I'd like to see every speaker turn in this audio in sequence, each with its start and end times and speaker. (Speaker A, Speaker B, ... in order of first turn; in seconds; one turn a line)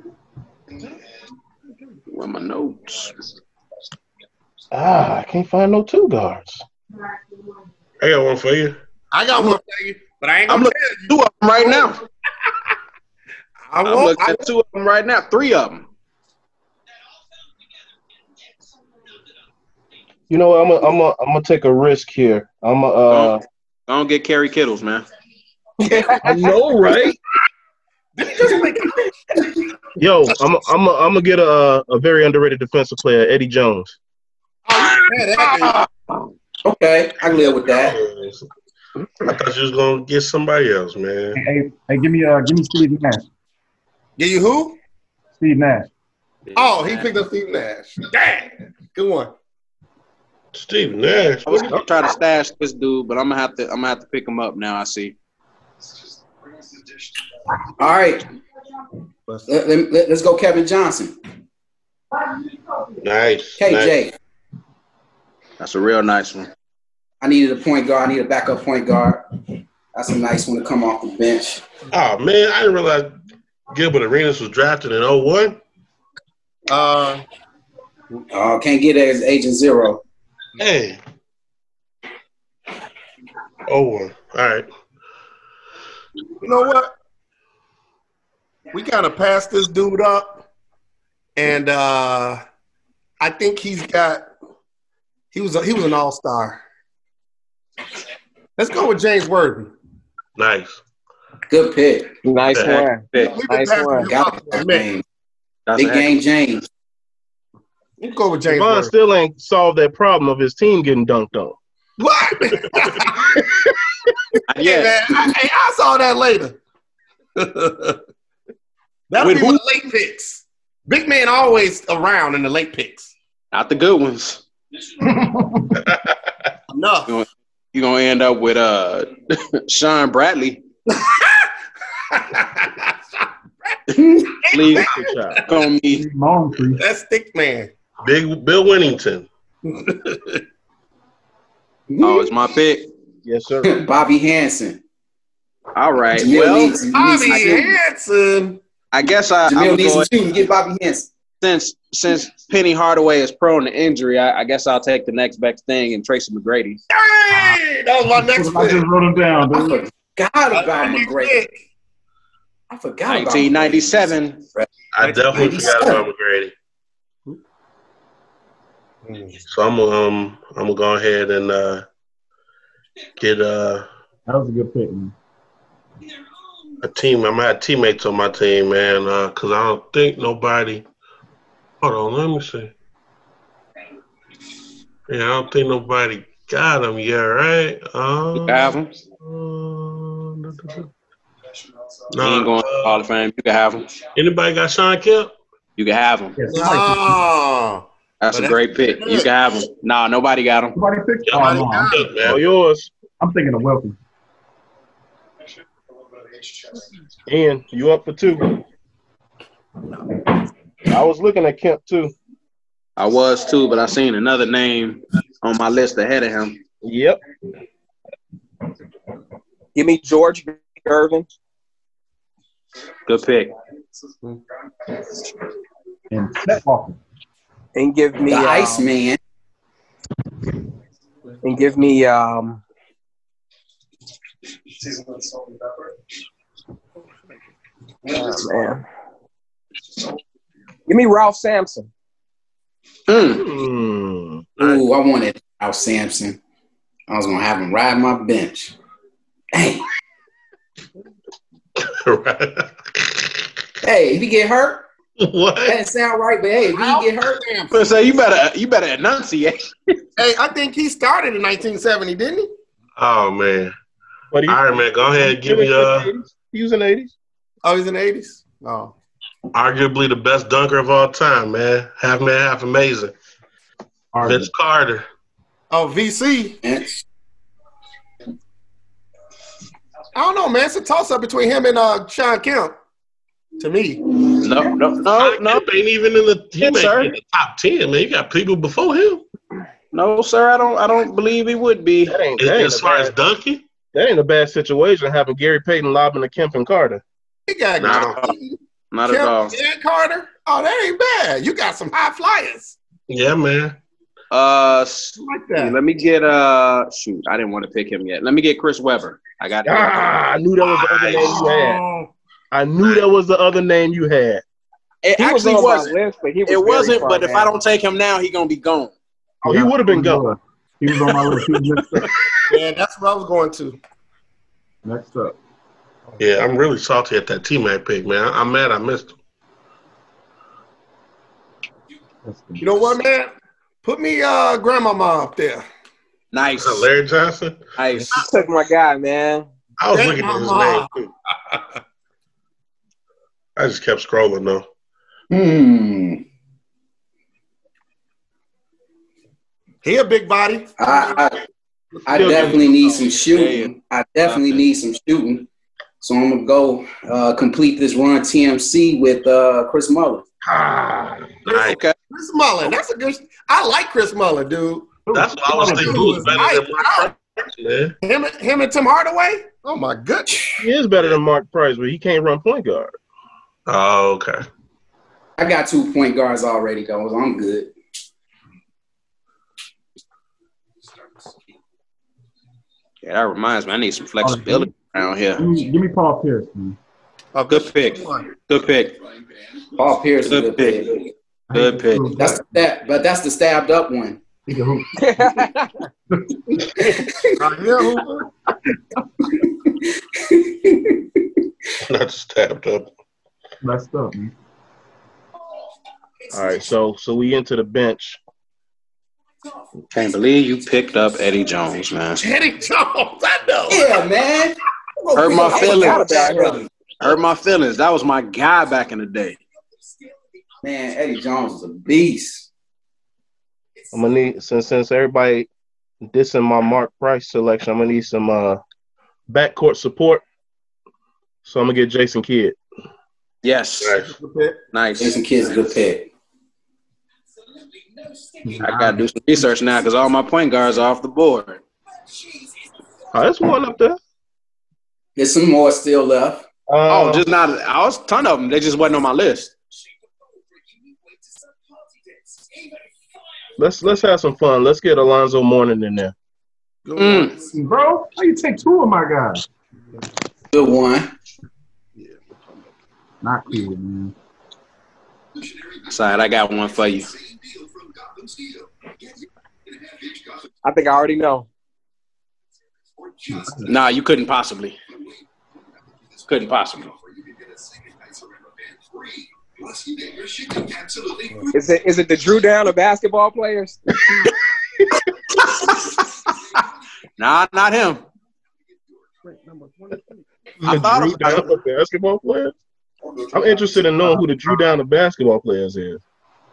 Speaker A: 2.1-3.2
Speaker B: 4.7-6.6
Speaker C: 8.0-8.8
Speaker D: 9.1-11.9
Speaker A: 10.5-12.0
Speaker D: 13.7-14.4
Speaker A: 13.8-15.8
Speaker B: 20.3-23.4
Speaker A: 23.1-25.1
Speaker E: 25.8-26.5
Speaker B: 26.2-27.2
Speaker D: 28.1-29.1
Speaker B: 30.0-34.0
Speaker D: 34.7-35.8
Speaker F: 36.6-38.0
Speaker C: 37.7-38.5
Speaker C: 39.2-41.4
Speaker G: 41.3-43.2
Speaker D: 44.2-44.8
Speaker G: 45.4-45.9
Speaker A: 46.5-47.1
Speaker D: 46.5-49.3
Speaker C: 50.5-51.7
Speaker A: 51.5-55.1
Speaker F: 57.8-58.3
Speaker F: 59.5-61.1
Speaker C: 63.0-64.0
Speaker F: 63.6-64.1
Speaker A: 65.6-66.5
Speaker F: 67.2-69.3
Speaker F: 69.9-71.7
Speaker C: 71.9-73.1
Speaker C: 73.7-75.6
Speaker D: 76.7-77.2
Speaker F: 78.3-80.0
Speaker C: 80.6-81.0
Speaker C: 83.7-84.7
Speaker D: 86.4-86.9
Speaker D: 88.7-90.4
Speaker D: 91.3-92.4
Speaker D: 93.2-94.3
Speaker D: 95.3-96.6
Speaker D: 98.6-99.7
Speaker C: 100.4-100.8
Speaker F: 101.5-102.1
Speaker E: 102.2-104.1
Speaker C: 102.5-102.8
Speaker A: 102.7-103.3
Speaker D: 103.2-104.9
Speaker F: 104.0-105.0
Speaker A: 105.7-106.2
Speaker F: 105.8-106.7
Speaker D: 108.0-108.9
Speaker B: 108.5-111.6
Speaker D: 112.0-113.4
Speaker A: 114.5-115.2
Speaker D: 114.6-116.6
Speaker D: 117.3-118.0
Speaker D: 119.1-123.1
Speaker A: 119.2-119.6
Speaker A: 123.5-124.4
Speaker G: 125.2-125.6
Speaker D: 126.7-127.1
Speaker A: 127.1-130.6
Speaker D: 131.0-131.5
Speaker D: 132.1-132.9
Speaker F: 133.9-134.3
Speaker D: 134.4-135.4
Speaker A: 134.5-136.0
Speaker B: 134.6-135.4
Speaker G: 135.9-136.8
Speaker D: 136.8-137.7
Speaker C: 138.0-139.3
Speaker D: 139.7-140.3
Speaker F: 141.9-142.3
Speaker A: 142.0-142.9
Speaker B: 143.2-143.8
Speaker F: 143.6-144.8
Speaker A: 145.7-146.8
Speaker F: 146.1-147.8
Speaker D: 146.8-148.6
Speaker A: 148.9-150.1
Speaker F: 149.5-151.1
Speaker A: 151.4-156.8
Speaker D: 156.9-158.8
Speaker G: 158.2-159.8
Speaker F: 159.5-161.5
Speaker D: 160.5-161.5
Speaker F: 162.7-164.7
Speaker A: 163.1-164.4
Speaker C: 164.9-166.5
Speaker D: 165.0-165.8
Speaker F: 165.3-166.0
Speaker D: 169.0-169.4
Speaker C: 169.5-171.8
Speaker C: 173.2-173.8
Speaker G: 174.3-175.1
Speaker C: 176.8-180.8
Speaker C: 181.8-182.7
Speaker C: 185.1-190.9
Speaker A: 188.4-188.9
Speaker C: 192.1-193.0
Speaker A: 192.2-193.9
Speaker C: 194.1-195.3
Speaker A: 195.8-196.4
Speaker G: 196.4-197.2
Speaker D: 196.5-199.3
Speaker A: 198.2-200.8
Speaker G: 200.7-202.0
Speaker C: 201.2-202.4
Speaker D: 201.4-202.1
Speaker B: 202.2-202.9
Speaker G: 203.2-204.0
Speaker B: 207.3-208.6
Speaker B: 210.9-212.1
Speaker A: 213.0-216.6
Speaker B: 216.8-217.2
Speaker E: 219.7-221.3
Speaker A: 223.1-223.5
Speaker G: 226.1-227.0
Speaker E: 227.7-228.9
Speaker F: 228.3-229.2
Speaker E: 231.4-232.6
Speaker E: 238.1-238.8
Speaker E: 240.9-241.9
Speaker A: 243.1-243.4
Speaker B: 243.2-244.5
Speaker F: 244.6-246.4
Speaker F: 247.1-248.7
Speaker F: 249.5-249.8
Speaker C: 251.8-253.3
Speaker F: 253.8-254.9
Speaker C: 255.2-255.8
Speaker F: 255.6-257.4
Speaker D: 256.7-257.9
Speaker A: 257.7-259.7
Speaker D: 260.2-262.5
Speaker C: 263.0-263.7
Speaker B: 264.3-267.1
Speaker C: 264.5-266.1
Speaker D: 267.6-268.9
Speaker C: 269.5-273.1
Speaker G: 274.1-274.5
Speaker C: 274.2-275.1
Speaker D: 275.7-276.6
Speaker F: 276.6-277.0
Speaker D: 280.1-282.8
Speaker D: 283.6-284.0
Speaker A: 284.4-285.6
Speaker C: 285.1-289.2
Speaker A: 286.6-287.1
Speaker A: 289.9-292.2
Speaker B: 292.1-293.1
Speaker C: 292.4-293.6
Speaker B: 293.9-297.0
Speaker D: 297.5-302.8
Speaker C: 297.8-298.1
Speaker A: 298.9-299.6
Speaker C: 303.1-303.8
Speaker A: 304.3-310.1
Speaker D: 305.1-305.8
Speaker B: 309.6-311.8
Speaker C: 310.7-311.3
Speaker D: 311.2-312.1
Speaker B: 312.5-314.4
Speaker A: 315.0-315.9
Speaker E: 315.1-317.5
Speaker A: 316.4-318.9
Speaker B: 319.4-320.2
Speaker G: 319.4-322.1
Speaker D: 322.5-323.8
Speaker G: 324.8-325.4
Speaker C: 326.2-329.1
Speaker G: 332.2-333.0
Speaker D: 332.6-333.3
Speaker D: 333.8-335.6
Speaker A: 336.3-336.9
Speaker C: 336.6-337.6
Speaker A: 337.8-338.2
Speaker E: 338.1-339.5
Speaker C: 339.8-341.1
Speaker D: 339.9-340.9
Speaker C: 343.6-344.6
Speaker F: 345.3-346.2
Speaker D: 349.8-350.7
Speaker F: 350.8-351.4
Speaker F: 352.1-355.5
Speaker B: 352.1-352.6
Speaker A: 352.2-352.6
Speaker A: 353.2-353.7
Speaker A: 354.2-354.6
Speaker F: 356.0-360.2
Speaker B: 360.4-361.3
Speaker C: 361.5-361.8
Speaker A: 361.5-361.9
Speaker D: 362.1-365.0
Speaker G: 365.1-366.5
Speaker C: 365.1-367.9
Speaker D: 365.6-367.1
Speaker D: 368.0-370.6
Speaker B: 370.6-372.9
Speaker C: 373.7-374.4
Speaker F: 375.4-377.7
Speaker A: 383.0-385.5
Speaker G: 384.2-386.8
Speaker D: 387.3-388.3
Speaker A: 387.5-389.0
Speaker F: 389.8-391.0
Speaker A: 390.2-392.2
Speaker G: 391.5-392.5
Speaker F: 392.2-394.2
Speaker G: 394.5-395.2
Speaker E: 395.0-395.8
Speaker F: 396.8-397.4
Speaker D: 397.4-398.2
Speaker F: 399.4-401.2
Speaker C: 401.9-402.9
Speaker G: 403.6-404.3
Speaker B: 406.3-408.2
Speaker A: 409.9-412.2
Speaker D: 412.2-413.9
Speaker F: 413.7-416.7
Speaker A: 415.1-416.3
Speaker E: 415.3-416.6
Speaker A: 417.0-419.4
Speaker F: 420.6-422.5
Speaker B: 423.9-425.5
Speaker B: 426.0-428.6
Speaker B: 429.3-430.2
Speaker B: 431.4-432.6
Speaker A: 433.4-433.9
Speaker C: 433.8-434.1
Speaker D: 434.0-434.6
Speaker A: 434.7-435.2
Speaker F: 435.0-436.1
Speaker G: 438.4-439.0
Speaker A: 438.6-441.6
Speaker B: 443.1-444.0
Speaker F: 445.1-446.4
Speaker B: 446.7-447.2
Speaker A: 446.9-449.5
Speaker B: 453.6-456.1
Speaker D: 456.8-457.4
Speaker A: 456.9-457.3
Speaker G: 457.4-459.4
Speaker F: 460.5-461.1
Speaker G: 463.2-464.1
Speaker A: 465.9-467.1
Speaker E: 470.6-471.5
Speaker G: 473.3-473.7
Speaker A: 473.6-474.8
Speaker A: 476.2-476.9
Speaker D: 481.0-481.5
Speaker E: 481.5-483.8
Speaker A: 487.2-488.0
Speaker D: 489.3-490.0
Speaker A: 490.6-491.5
Speaker B: 490.6-492.5
Speaker B: 493.3-496.0